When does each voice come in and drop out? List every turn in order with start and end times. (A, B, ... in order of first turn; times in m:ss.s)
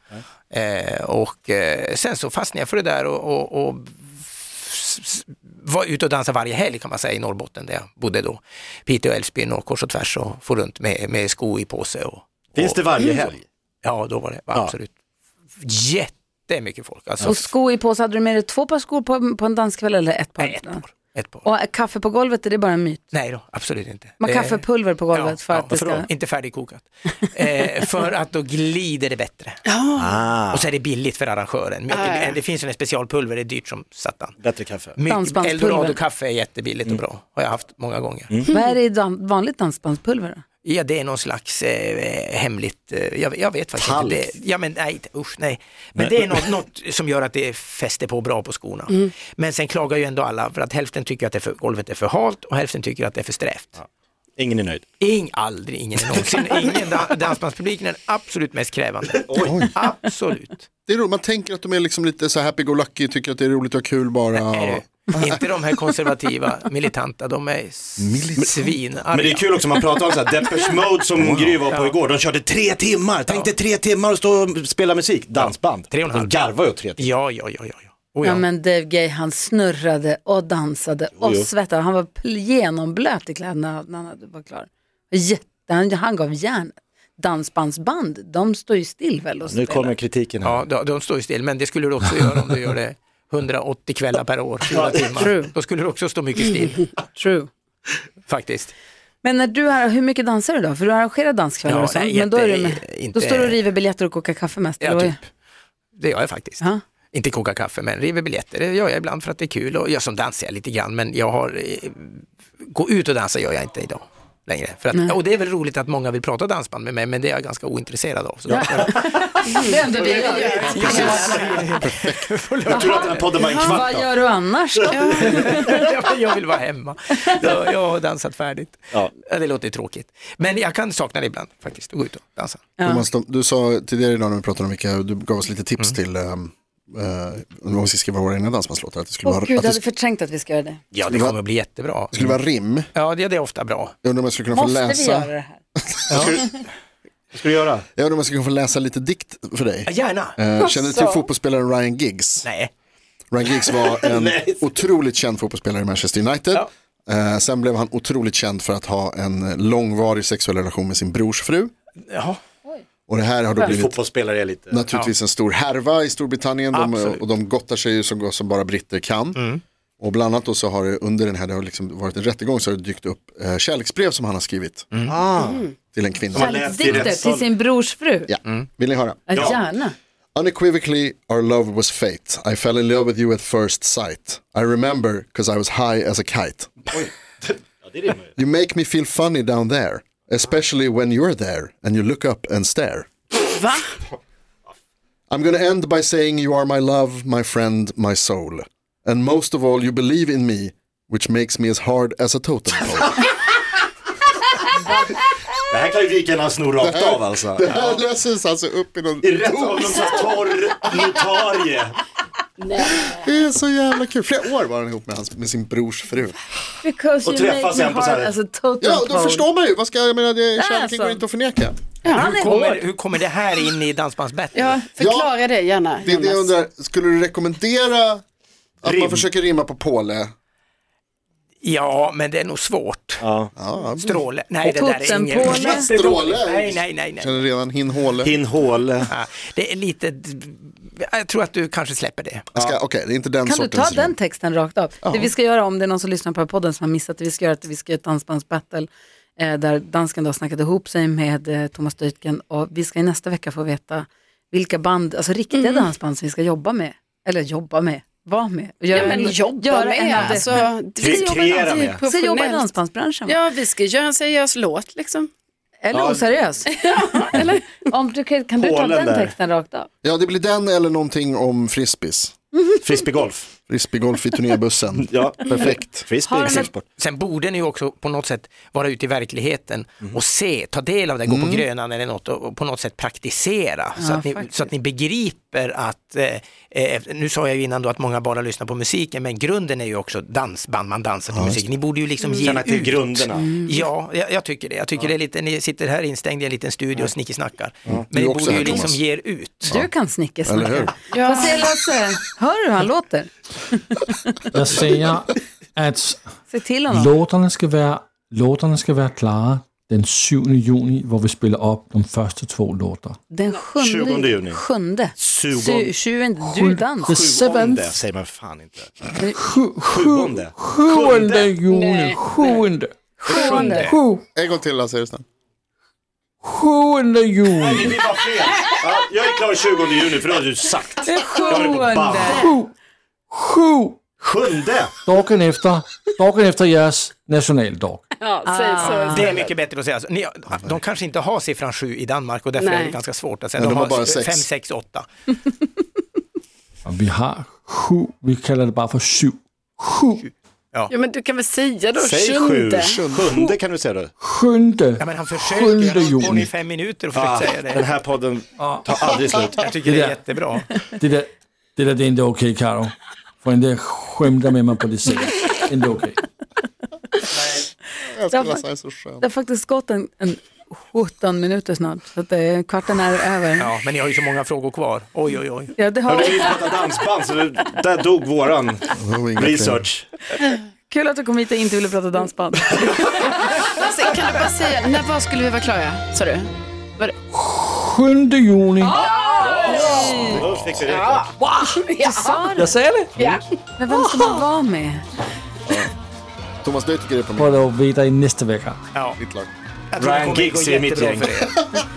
0:00.5-0:12.8 A
0:12.6-0:13.4 B
0:13.8-0:14.9 A
0:15.6-0:17.4 A
0:17.2-0:20.8 C
0:20.4-0:21.4 A
0:21.4-0:23.1 C
0:23.1-0:29.6 A
0:24.2-0:26.1 C
0:25.7-0:26.0 B
0:29.7-0:30.3 D
0:30.0-0:30.7 B
0:30.5-0:34.4 A
0:31.9-0:32.4 D
0:34.4-0:35.0 B
0:35.0-0:38.4 A
0:35.1-0:36.0 C
0:38.5-0:40.4 C
0:40.6-0:53.8 A
0:43.8-0:44.4 B
0:46.0-0:46.4 B
0:54.4-0:54.8 B
0:55.0-1:00.7 A
0:59.2-0:59.7 B
0:59.4-0:59.7 E
1:00.9-1:05.4 E
1:04.3-1:09.6 A
1:08.0-1:08.8 E
1:09.1-1:17.1 B
1:11.2-1:12.0 A
1:13.3-1:13.5 A
1:15.4-1:16.3 A
1:17.0-1:18.4 A
1:18.2-1:30.0 C
1:21.2-1:21.5 B
1:29.4-1:30.6 B
1:30.4-1:36.9 A
1:34.7-1:35.3 B
1:35.0-1:35.5 C
1:37.1-1:37.5 C
1:38.3-1:38.7 A
1:39.2-1:45.2 C
1:41.7-1:43.6 A
1:44.8-1:45.2 A
1:46.0-1:59.3 A
1:58.5-2:00.0 B
1:58.9-2:01.5 C
1:59.5-2:01.8 D
2:00.1-2:03.4 A
2:01.1-2:01.3 B
2:01.8-2:02.2 E
2:02.7-2:04.1 B
2:02.7-2:05.8 C
2:03.6-2:03.8 D
2:04.7-2:05.8 B
2:04.9-2:05.3 D
2:05.2-2:12.6 A
2:12.8-2:13.1 C
2:12.8-2:19.8 E
2:19.2-2:20.8 C
2:20.9-2:22.2 A
2:21.1-2:21.4 E
2:22.1-2:22.9 E
2:23.0-2:23.9 A
2:24.0-2:25.3 E
2:24.5-2:25.6 C
2:25.8-2:26.4 E
2:26.1-2:26.4 A
2:27.3-2:27.8 B
2:28.0-2:32.5 E
2:29.9-2:30.4 A
2:32.4-2:32.7 A
2:33.3-2:41.7 E
2:33.5-2:34.6 B
2:42.1-2:42.4 A
2:43.1-2:44.0 E
2:43.6-2:44.8 B
2:44.7-2:49.4 E
2:46.7-2:47.2 A
2:49.4-2:49.6 A
2:50.0-2:54.9 E
2:54.9-2:55.2 A
2:55.0-2:55.7 B
2:55.3-2:55.7 D
2:55.9-2:57.0 E
2:56.2-2:57.5 B
2:56.4-2:58.3 C
2:58.3-2:59.6 E
2:59.3-2:59.9 C
2:59.3-2:59.6 B
3:00.4-3:06.9 E
3:06.9-3:08.3 B
3:08.4-3:13.1 E
3:13.3-3:14.0 D
3:15.3-3:23.4 E
3:25.7-3:28.0 B
3:26.8-3:30.4 E
3:29.2-3:32.0 B
3:32.6-3:33.2 D
3:33.1-3:36.4 E
3:36.8-3:39.5 C
3:37.2-3:38.3 B
3:38.8-3:41.8 E
3:40.6-3:41.2 C
3:42.0-3:42.3 D
3:42.1-3:42.8 C
3:42.1-3:44.8 A
3:44.6-3:46.5 D
3:45.0-3:45.3 E
3:46.0-3:48.2 E
3:48.8-3:50.3 E
3:48.8-3:49.3 B
3:51.6-3:53.2 A
3:53.2-3:53.5 B
3:53.6-3:54.2 E
3:54.0-3:57.4 A
3:54.6-3:55.9 C
3:55.4-3:58.3 E
3:58.2-3:59.1 B
3:59.1-4:02.5 A
4:02.6-4:04.2 E
4:03.4-4:23.4 C
4:05.0-4:05.3 E
4:15.5-4:15.9 D
4:18.9-4:25.3 D
4:21.0-4:22.0 B
4:25.8-4:26.8 C
4:25.9-4:26.3 B
4:26.7-4:27.9 D
4:27.3-4:29.9 C
4:28.6-4:29.3 B
4:30.0-4:32.3 E
4:32.8-4:33.5 B
4:33.7-4:36.1 E
4:35.0-4:36.8 B
4:36.2-4:36.7 C
4:37.0-4:59.7 A
4:41.3-4:41.7 E
4:44.0-4:44.7 C
4:51.3-4:51.6 E
4:52.2-4:52.5 D
4:52.4-4:53.5 B
4:58.0-4:59.0 E
4:59.7-5:04.4 C
5:00.5-5:00.9 E
5:01.1-5:01.7 D
5:04.5-5:06.2 F
5:06.5-5:07.1 C
5:06.9-5:13.2 F
5:13.3-5:17.2 C
5:13.8-5:14.6 B
5:15.2-5:15.9 B
5:16.4-5:18.0 F
5:17.1-5:19.1 B
5:19.2-5:24.2 F
5:19.8-5:21.6 B
5:21.7-5:22.7 D
5:23.2-5:23.9 C
5:23.2-5:24.0 A
5:23.5-5:23.9 D
5:24.4-5:25.2 E
5:26.4-5:28.1 F
5:27.6-5:32.4 B
5:28.4-5:28.8 D
5:31.0-5:32.6 C
5:32.2-5:32.7 F
5:33.3-5:34.0 F
5:34.2-5:35.0 B
5:35.0-5:38.0 F
5:38.2-5:39.5 D
5:38.4-5:39.3 C
5:38.8-5:45.3 A
5:42.6-5:43.0 D
5:43.6-5:44.4 E
5:46.9-5:50.2 F
5:50.2-5:50.9 A
5:50.9-5:53.0 D
5:52.0-5:54.1 B
5:52.8-5:53.3 E
5:54.2-5:56.5 F
5:55.0-5:57.9 A
5:57.1-5:59.7 B
5:58.6-5:59.0 F
5:59.5-6:00.7 A
5:59.8-6:00.2 F
6:00.8-6:06.2 F
6:08.0-6:09.2 E
6:08.3-6:08.6 C
6:09.2-6:13.7 C
6:13.6-6:15.7 A
6:15.8-6:16.8 C
6:16.1-6:20.1 B
6:19.0-6:19.9 E
6:20.9-6:23.3 C
6:23.2-6:27.2 D
6:27.3-6:30.4 F
6:28.8-6:30.4 C
6:29.2-6:30.1 D
6:29.6-6:31.3 B
6:30.3-6:31.0 E
6:30.8-6:32.5 D
6:32.0-6:32.7 C
6:32.6-6:33.4 F
6:33.2-6:34.4 D
6:33.8-6:35.0 C
6:36.6-6:37.6 E
6:37.4-6:38.8 F
6:38.9-6:39.2 A
6:39.2-6:39.5 E
6:39.9-6:41.7 A
6:40.0-6:41.3 B